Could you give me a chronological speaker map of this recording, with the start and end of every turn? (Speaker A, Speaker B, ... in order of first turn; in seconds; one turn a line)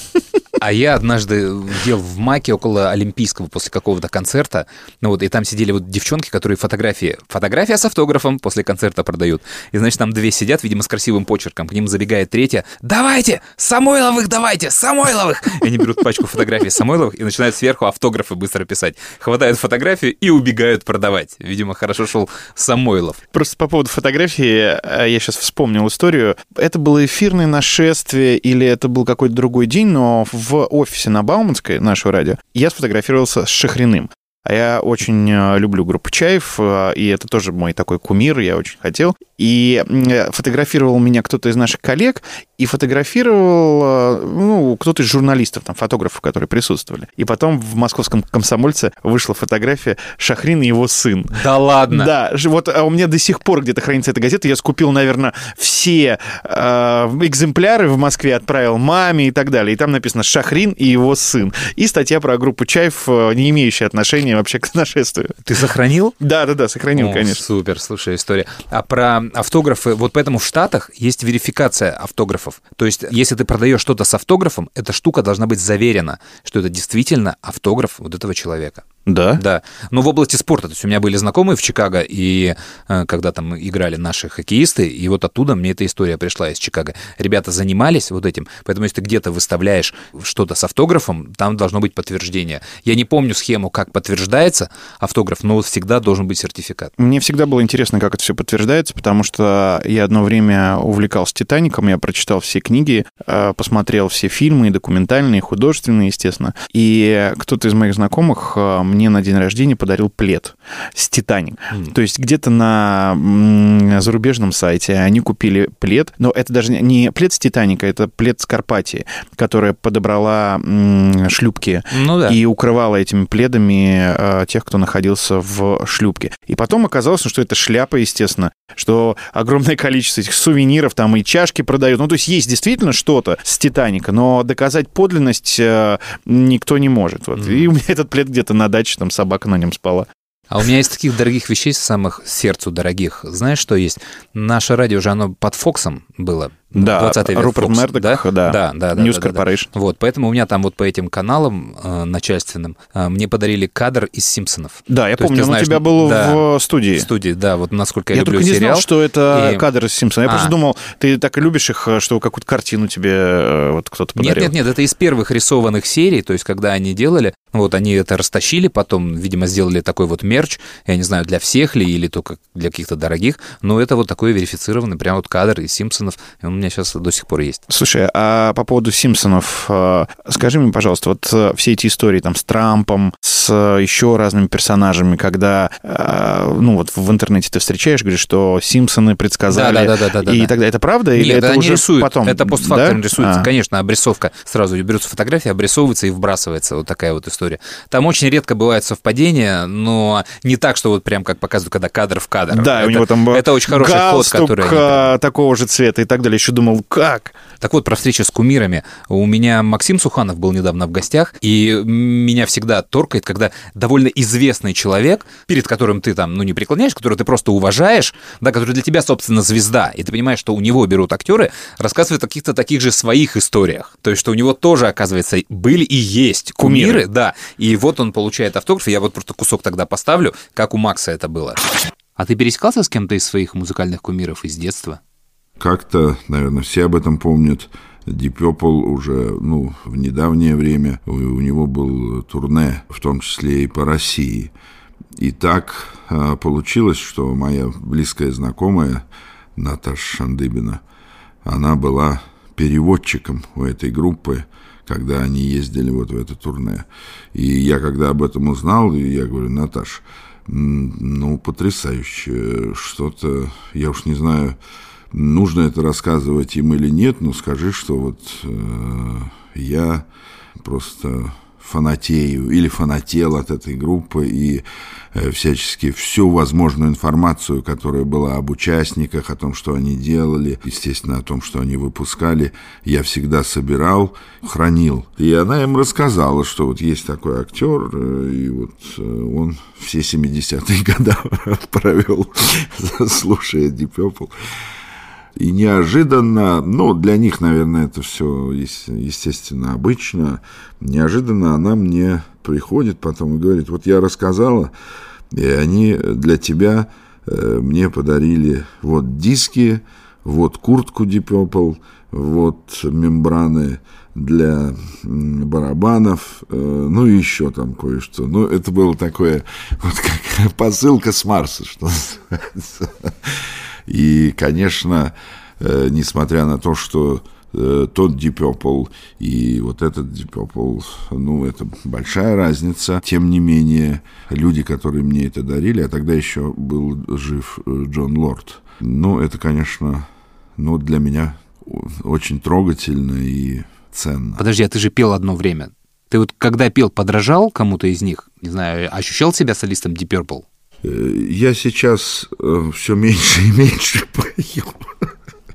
Speaker A: 0.6-23.2
Speaker B: 23.3-51.4
Speaker A: 51.3-52.1
Speaker B: 51.9-65.4
Speaker A: 65.5-66.2
Speaker B: 66.2-67.4
Speaker A: 67.0-78.9
Speaker B: 79.1-79.4
Speaker A: 79.4-96.9
Speaker B: 97.0-140.1
Speaker A: 121.9-122.4
Speaker A: 137.4-137.7
Speaker A: 140.5-159.6
Speaker B: 146.7-149.7
Speaker B: 154.9-157.1
Speaker B: 158.1-164.5
Speaker A: 160.3-160.5
Speaker A: 164.2-177.6
Speaker B: 177.7-193.5
Speaker A: 189.5-190.5
Speaker A: 191.2-205.1
Speaker B: 202.5-207.4
Speaker A: 207.6-231.6
Speaker B: 226.6-227.0
Speaker A: 232.2-235.0
Speaker C: 235.6-244.5
Speaker C: 245.2-249.1
Speaker C: 249.6-250.8
Speaker C: 251.4-264.6
Speaker C: 265.1-270.1
Speaker C: 270.6-294.3
Speaker C: 295.4-304.7
Speaker C: 305.3-323.3
Speaker C: 323.9-344.4
Speaker A: 344.4-350.4
Speaker C: 350.8-355.1